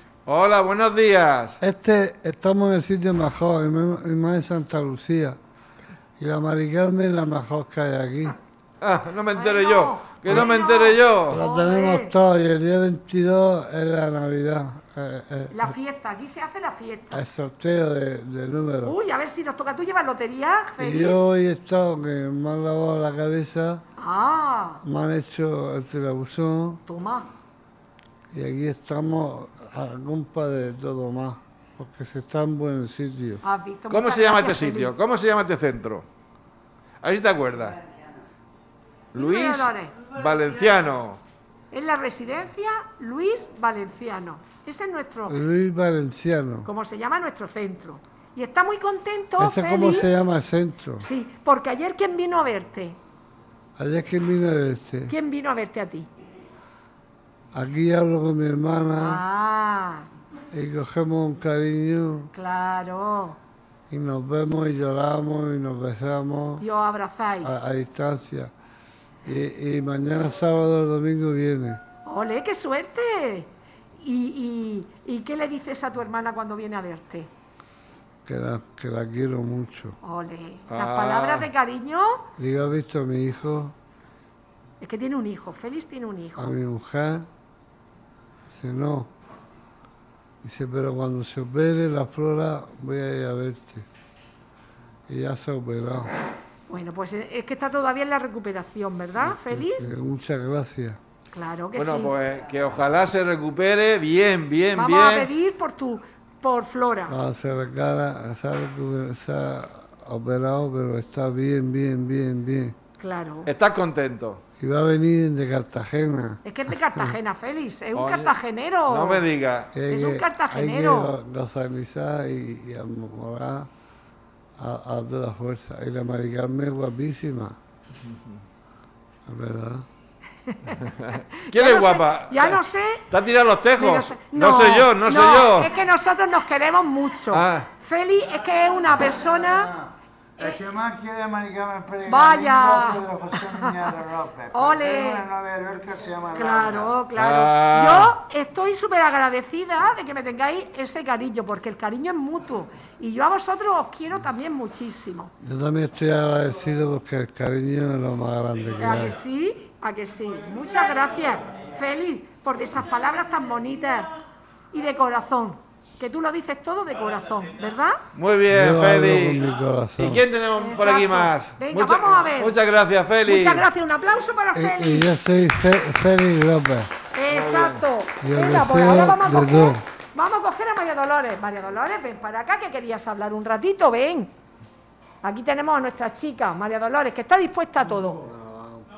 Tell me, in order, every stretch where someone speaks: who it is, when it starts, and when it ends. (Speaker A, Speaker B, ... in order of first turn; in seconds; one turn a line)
Speaker A: 0.2-1.6
Speaker B: 1.6-5.4
Speaker B: 6.2-8.3
Speaker A: 8.8-11.4
Speaker C: 9.3-12.1
Speaker B: 11.3-15.7
Speaker C: 15.5-17.2
Speaker B: 17.1-18.9
Speaker C: 18.8-21.2
Speaker B: 20.8-23.8
Speaker C: 24.0-24.8
Speaker B: 24.8-26.8
Speaker C: 26.9-27.2
Speaker B: 28.3-33.4
Speaker C: 33.4-34.9
Speaker A: 33.9-36.0
Speaker A: 37.0-37.8
Speaker A: 39.1-41.2
Speaker C: 39.1-39.9
Speaker C: 41.7-45.4
Speaker B: 45.3-46.7
Speaker C: 46.6-50.1
Speaker B: 49.4-51.1
Speaker C: 51.0-53.0
Speaker B: 53.8-55.1
Speaker C: 55.1-56.1
Speaker B: 57.5-59.2
Speaker C: 59.0-60.1
Speaker B: 60.5-62.3
Speaker C: 62.3-63.4
Speaker B: 63.9-66.6
Speaker C: 66.6-67.6
Speaker B: 67.4-68.5
Speaker B: 69.2-71.8
Speaker C: 72.0-77.3
Speaker B: 78.2-80.0
Speaker C: 80.0-82.2
Speaker A: 80.7-81.5
Speaker B: 82.4-83.7
Speaker C: 84.8-86.5
Speaker B: 86.3-87.3
Speaker B: 88.5-89.1
Speaker B: 90.4-93.8
Speaker B: 95.1-96.1
Speaker C: 96.7-99.9
Speaker B: 99.4-101.0
Speaker C: 101.3-102.1
Speaker A: 101.8-105.3
Speaker C: 104.8-107.2
Speaker B: 107.1-112.7
Speaker C: 113.0-113.5
Speaker A: 113.5-114.4
Speaker B: 114.6-117.2
Speaker C: 116.4-119.2
Speaker A: 117.9-118.3
Speaker A: 118.9-119.7
Speaker B: 119.7-123.7
Speaker C: 119.9-121.1
Speaker B: 124.6-127.5
Speaker B: 129.3-129.8
Speaker A: 131.5-135.7
Speaker C: 131.5-133.0
Speaker C: 133.7-139.7
Speaker A: 137.3-137.7
Speaker C: 140.4-140.7
Speaker D: 140.4-146.9
Speaker C: 142.0-143.9
Speaker C: 144.5-145.3
Speaker C: 146.3-155.3
Speaker A: 147.2-148.1
Speaker B: 155.4-159.2
Speaker C: 158.8-164.1
Speaker C: 164.7-168.0
Speaker A: 168.1-169.4
Speaker B: 168.5-170.2
Speaker A: 170.0-173.7
Speaker C: 170.6-172.6
Speaker C: 173.2-175.1
Speaker B: 174.5-176.9
Speaker C: 177.1-184.3
Speaker A: 177.3-177.8
Speaker B: 178.2-179.8
Speaker C: 185.2-188.2